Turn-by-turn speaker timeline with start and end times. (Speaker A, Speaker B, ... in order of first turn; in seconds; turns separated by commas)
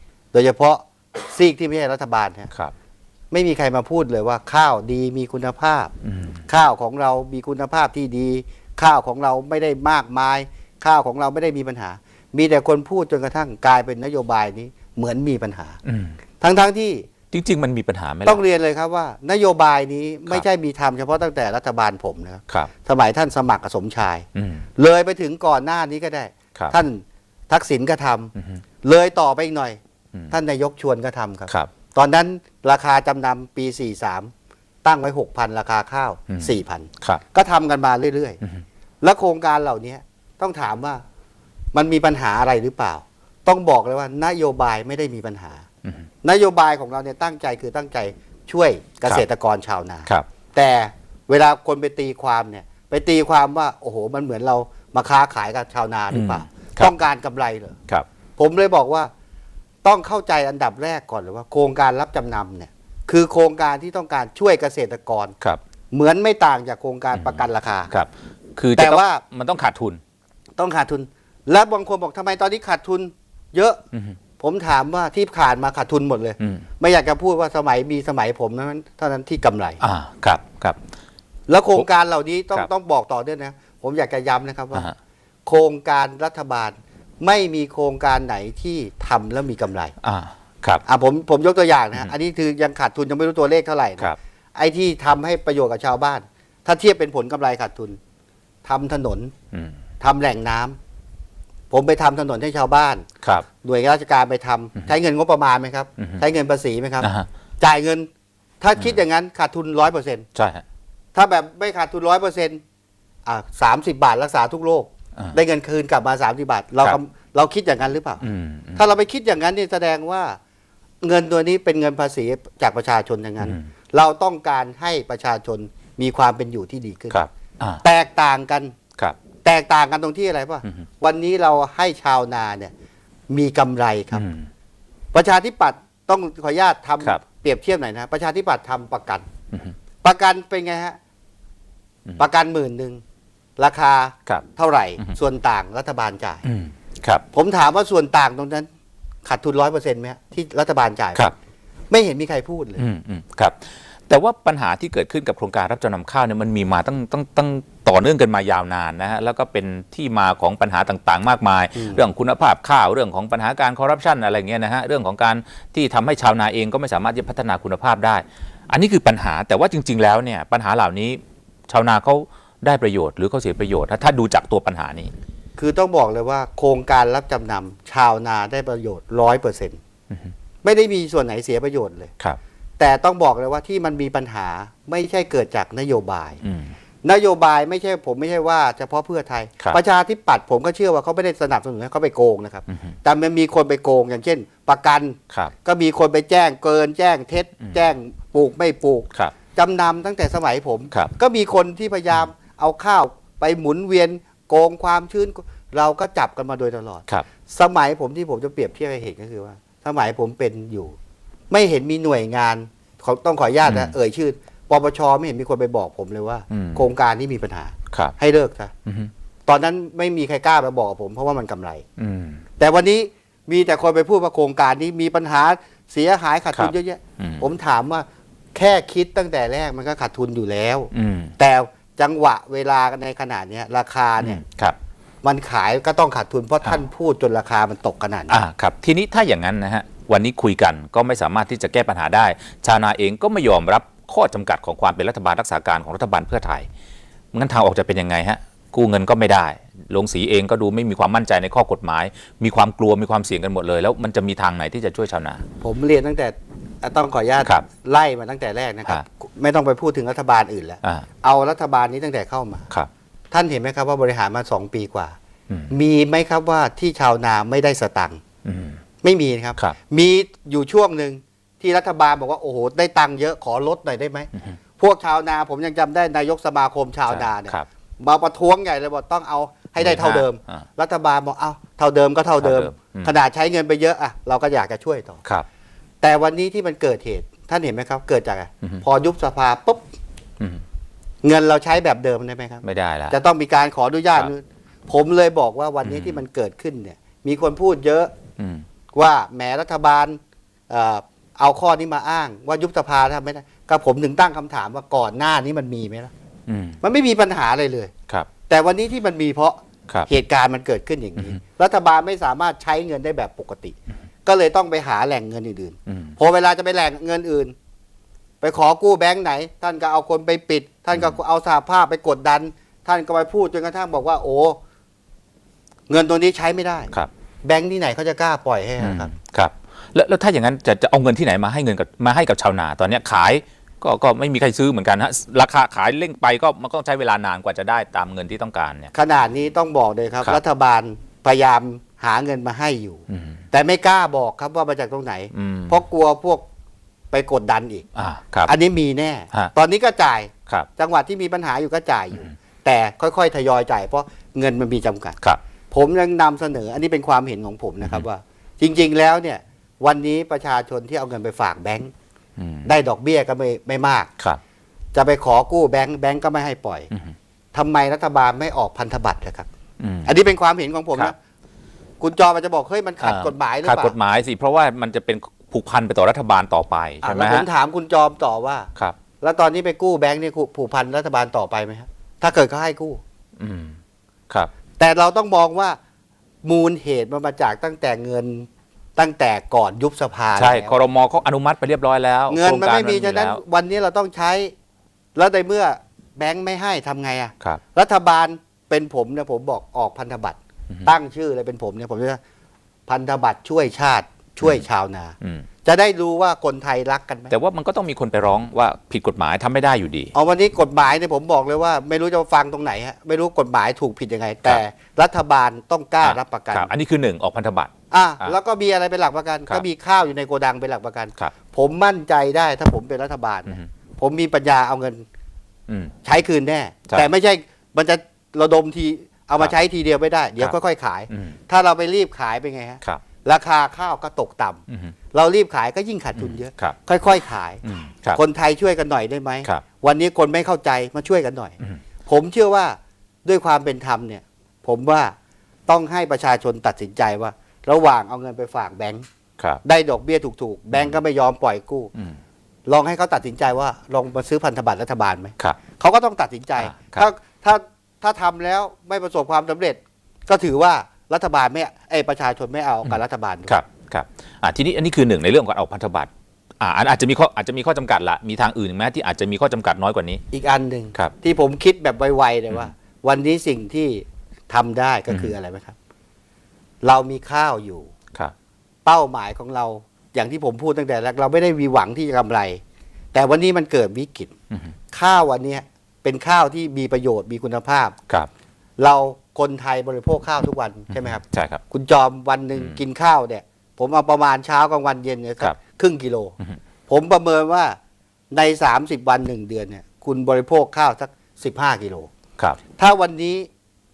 Speaker A: 0.3-2.5, Speaker A: 3.3-5.9, Speaker B: 6.0-6.4, Speaker A: 6.5-15.8, Speaker B: 15.8-16.2, Speaker A: 16.4-17.1, Speaker B: 17.3-18.4, Speaker A: 18.2-24.2, Speaker B: 24.3-24.6, Speaker A: 24.8-28.3, Speaker B: 28.3-28.6, Speaker A: 28.8-29.8, Speaker A: 30.3-34.3, Speaker A: 34.8-38.4, Speaker B: 36.3-37.2, Speaker A: 39.0-41.0, Speaker A: 41.7-45.6, Speaker A: 46.2-57.8, Speaker B: 56.1-56.9, Speaker A: 58.4-59.1, Speaker A: 59.8-65.3, Speaker A: 65.9-67.9, Speaker B: 67.1-70.0, Speaker A: 68.8-69.2, Speaker A: 70.6-73.8, Speaker A: 74.4-79.8, Speaker B: 76.4-76.7, Speaker B: 79.8-80.8, Speaker A: 81.5-84.9, Speaker A: 85.5-89.9, Speaker B: 90.0-90.8, Speaker A: 90.8-98.0, Speaker A: 98.6-99.3, Speaker B: 99.5-99.8, Speaker A: 100.0-100.8, Speaker A: 101.7-103.0, Speaker A: 103.6-108.1, Speaker B: 107.0-107.3, Speaker A: 108.6-110.3, Speaker B: 110.3-110.6, Speaker A: 111.1-112.6, Speaker A: 113.2-120.4, Speaker B: 118.2-118.8, Speaker A: 121.0-127.2, Speaker B: 123.4-123.7, Speaker B: 127.1-127.8, Speaker A: 127.8-128.7, Speaker A: 129.4-132.7, Speaker A: 133.3-134.2, Speaker B: 134.1-134.5, Speaker A: 135.1-139.2, Speaker A: 140.0-141.0, Speaker A: 142.2-143.0, Speaker A: 143.6-146.4, Speaker B: 146.4-147.2, Speaker A: 147.3-148.7, Speaker A: 149.2-151.3, Speaker A: 151.9-152.8, Speaker B: 152.8-175.1, Speaker A: 161.7-162.0, Speaker A: 175.6-179.8, Speaker A: 180.6-182.1, Speaker A: 182.8-186.4, Speaker B: 186.4-186.7, Speaker A: 187.0-210.9, Speaker B: 192.7-192.9, Speaker A: 211.5-218.7, Speaker B: 213.6-213.9, Speaker B: 216.5-216.9, Speaker B: 217.9-218.2, Speaker B: 218.8-219.1, Speaker A: 219.5-221.8, Speaker B: 222.0-222.4, Speaker A: 222.6-234.4, Speaker B: 226.5-227.5, Speaker B: 230.9-231.3, Speaker B: 234.2-234.8, Speaker A: 235.2-238.4, Speaker B: 238.3-246.7, Speaker B: 247.3-255.4, Speaker A: 255.6-262.7, Speaker A: 263.3-265.1, Speaker A: 265.7-268.2, Speaker B: 268.4-268.8, Speaker A: 269.0-285.2, Speaker B: 277.1-277.6, Speaker B: 279.8-280.6, Speaker B: 282.4-283.1, Speaker A: 286.0-289.9, Speaker A: 291.2-298.1, Speaker B: 292.6-293.1, Speaker B: 295.8-296.2, Speaker B: 298.4-298.6, Speaker A: 298.9-306.1, Speaker B: 306.5-306.8, Speaker A: 306.8-307.9, Speaker A: 308.5-317.5, Speaker B: 315.9-316.1, Speaker A: 318.4-324.6, Speaker A: 325.9-326.9, Speaker A: 327.4-329.1, Speaker B: 328.8-338.9, Speaker A: 338.9-346.4, Speaker B: 343.1-343.4, Speaker B: 345.3-345.8, Speaker A: 347.1-347.8, Speaker B: 347.9-348.5, Speaker A: 348.4-355.2, Speaker A: 355.7-361.9, Speaker B: 362.4-362.7, Speaker A: 362.6-364.1, Speaker A: 364.9-366.9, Speaker B: 366.9-367.1, Speaker A: 367.5-369.5, Speaker B: 369.8-370.1, Speaker A: 370.0-371.1, Speaker A: 372.0-373.9, Speaker B: 373.0-377.5, Speaker A: 377.0-378.7, Speaker A: 379.2-383.0, Speaker B: 383.4-384.5, Speaker A: 384.8-385.8, Speaker A: 386.4-390.7, Speaker B: 390.4-393.4, Speaker A: 392.3-394.5, Speaker A: 395.1-402.2, Speaker A: 402.9-407.3, Speaker B: 405.2-405.4, Speaker B: 407.3-410.1, Speaker A: 410.1-416.7, Speaker B: 416.0-418.3, Speaker A: 417.9-425.1, Speaker B: 425.7-425.9, Speaker A: 426.0-434.6, Speaker B: 431.1-431.4, Speaker B: 434.7-434.9, Speaker A: 435.1-445.1, Speaker B: 436.1-436.8, Speaker B: 437.6-438.2, Speaker A: 445.7-449.0, Speaker A: 449.6-451.9, Speaker B: 450.7-451.0, Speaker A: 452.7-463.6, Speaker B: 456.6-457.0, Speaker B: 462.8-470.2, Speaker A: 470.3-475.8, Speaker A: 476.8-477.9, Speaker A: 478.8-482.6, Speaker A: 483.1-484.3, Speaker A: 484.9-487.9, Speaker A: 488.8-496.3, Speaker B: 490.9-491.6, Speaker A: 496.9-497.8, Speaker A: 498.3-502.1, Speaker A: 502.8-503.5